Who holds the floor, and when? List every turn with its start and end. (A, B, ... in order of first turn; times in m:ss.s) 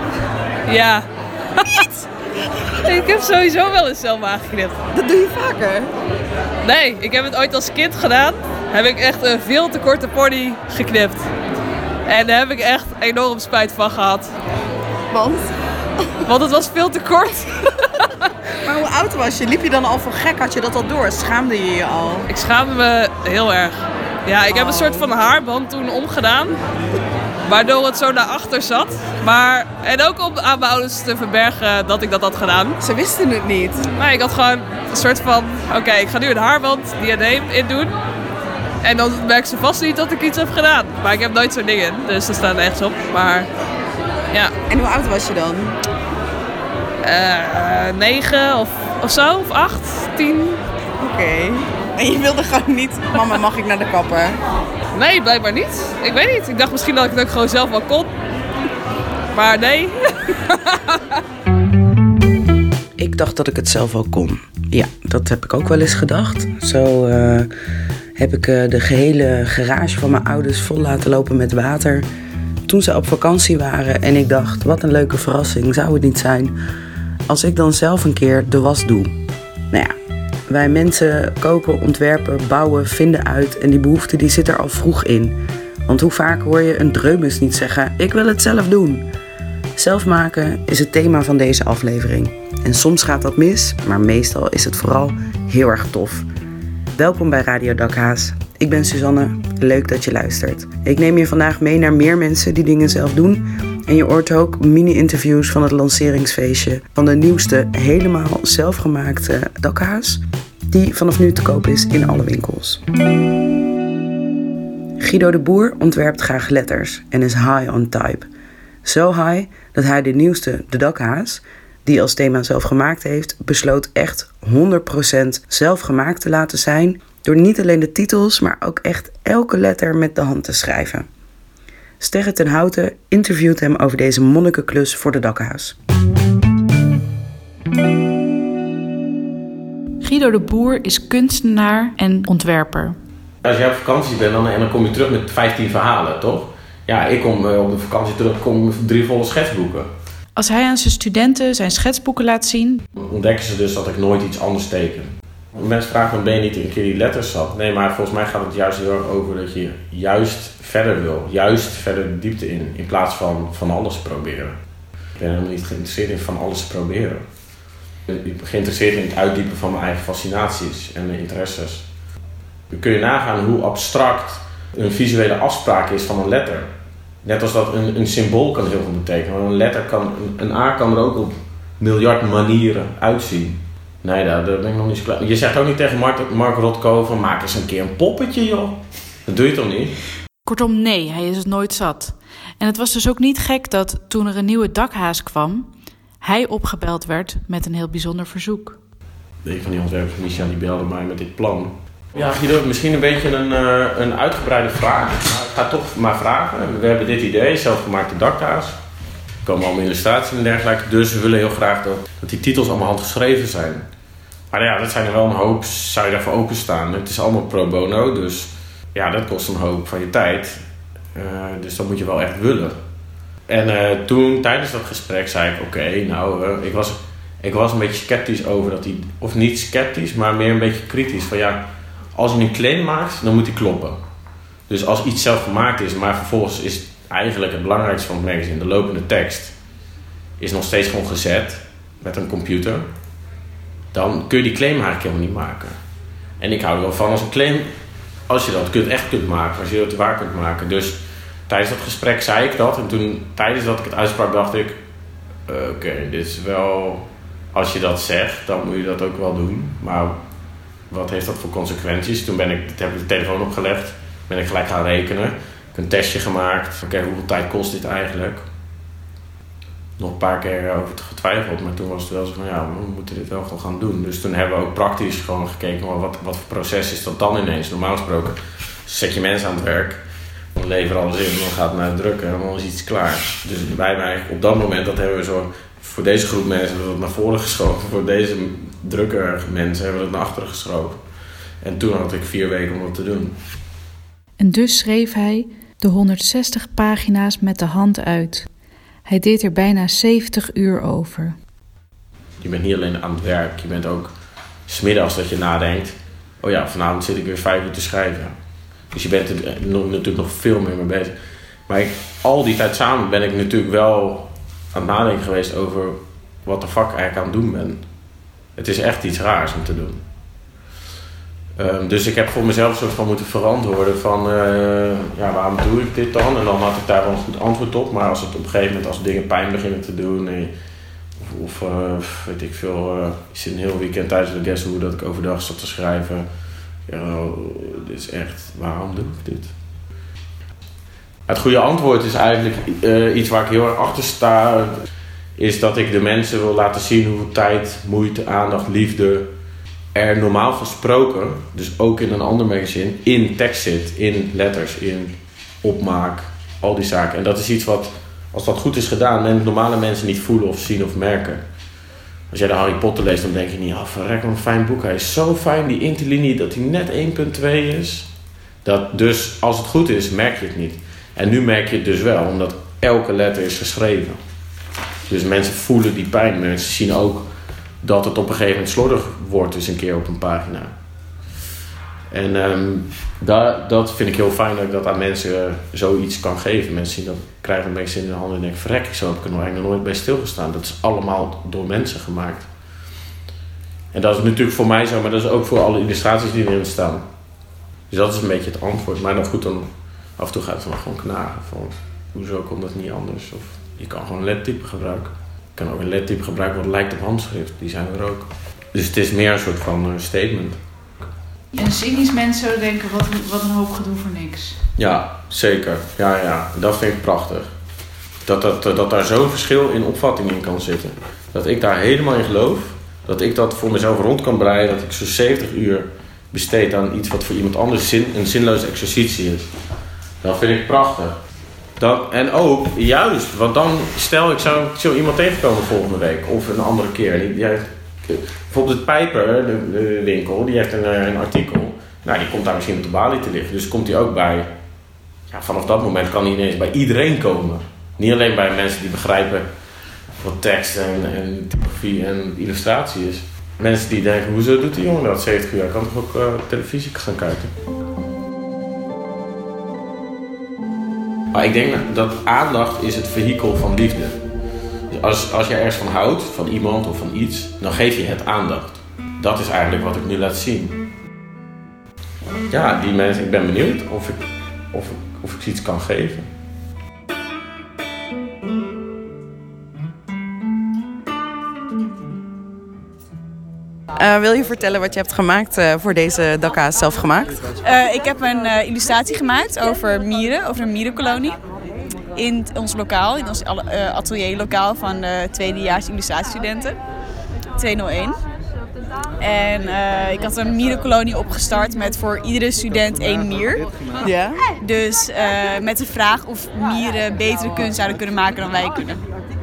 0:00.7-0:01.0 A
0:02.8-0:04.8 A
0:05.0-0:05.9 B
0:06.6-0:11.2 A
0:12.1-0:14.3 A
0:15.1-0:15.4 B
0:16.3-0:17.4 A
0:18.7-0:22.2 B
0:22.3-0:26.6 A
0:27.5-0:32.8 A
0:32.9-0:33.8 B
0:34.0-0:37.9 A
0:38.8-0:43.5 A
0:44.7-0:45.7 B
0:47.0-0:50.6 A
0:51.0-0:54.4 B
0:54.9-0:58.1 A
0:59.3-0:59.9 A
1:03.0-1:07.5 C
1:08.2-1:12.0 C
1:12.7-1:16.5 C
1:17.3-1:19.1 C
1:20.5-1:25.4 C
1:25.9-1:29.0 C
1:29.8-1:36.3 C
1:36.9-1:52.8 C
1:55.0-1:58.3 C
1:58.8-2:11.1 C
2:12.0-2:15.7 C
2:20.0-2:23.0 D
2:23.4-2:29.9 E
2:30.4-2:32.8 D
2:33.0-2:44.6 E
2:45.2-2:47.2 E
2:48.1-2:51.9 E
2:52.7-2:56.7 E
2:57.2-3:10.0 E
3:10.4-3:15.7 D
3:16.2-3:18.8 D
3:19.4-3:28.8 E
3:29.4-3:33.8 E
3:34.5-3:40.6 E
3:41.1-3:42.7 E
3:43.5-3:54.0 E
3:54.7-3:59.6 E
4:00.4-4:02.9 E
4:03.9-4:05.8 E
4:06.4-4:07.7 E
4:08.3-4:14.8 E
4:15.5-4:20.2 E
4:20.9-4:28.5 E
4:30.0-4:40.0 E
4:40.5-4:51.0 E
4:51.6-4:53.3 E
4:54.4-4:58.5 D
4:59.0-5:01.4 D
5:02.4-5:04.1 E
5:04.7-5:08.3 E
5:08.9-5:11.1 E
5:11.7-5:17.8 E
5:18.6-5:20.0 E
5:21.6-5:30.5 E
5:31.2-5:36.2 E
5:36.9-5:39.5 E
5:41.3-5:44.8 E
5:45.4-5:49.3 E
5:49.9-6:01.4 E
6:02.3-6:08.1 E
6:08.6-6:14.2 E
6:15.1-6:17.3 E
6:17.8-6:20.7 E
6:22.1-6:32.5 E
6:33.9-6:37.0 E
6:37.9-6:50.6 E
6:51.5-6:54.6 D
6:54.8-6:57.5 E
6:58.2-7:09.5 E
7:10.2-7:11.2 E
7:11.8-7:24.5 E
7:25.3-7:29.5 E
7:30.2-7:37.5 E
7:41.3-7:44.2 E
7:44.9-7:50.8 E
7:52.5-7:54.2 E
7:54.7-7:56.3 E
8:04.0-8:07.3 B
8:07.6-8:11.4 F
8:12.2-8:16.8 F
8:17.6-8:18.2 F
8:19.2-8:23.6 F
8:24.0-8:24.3 B
8:24.6-8:29.0 F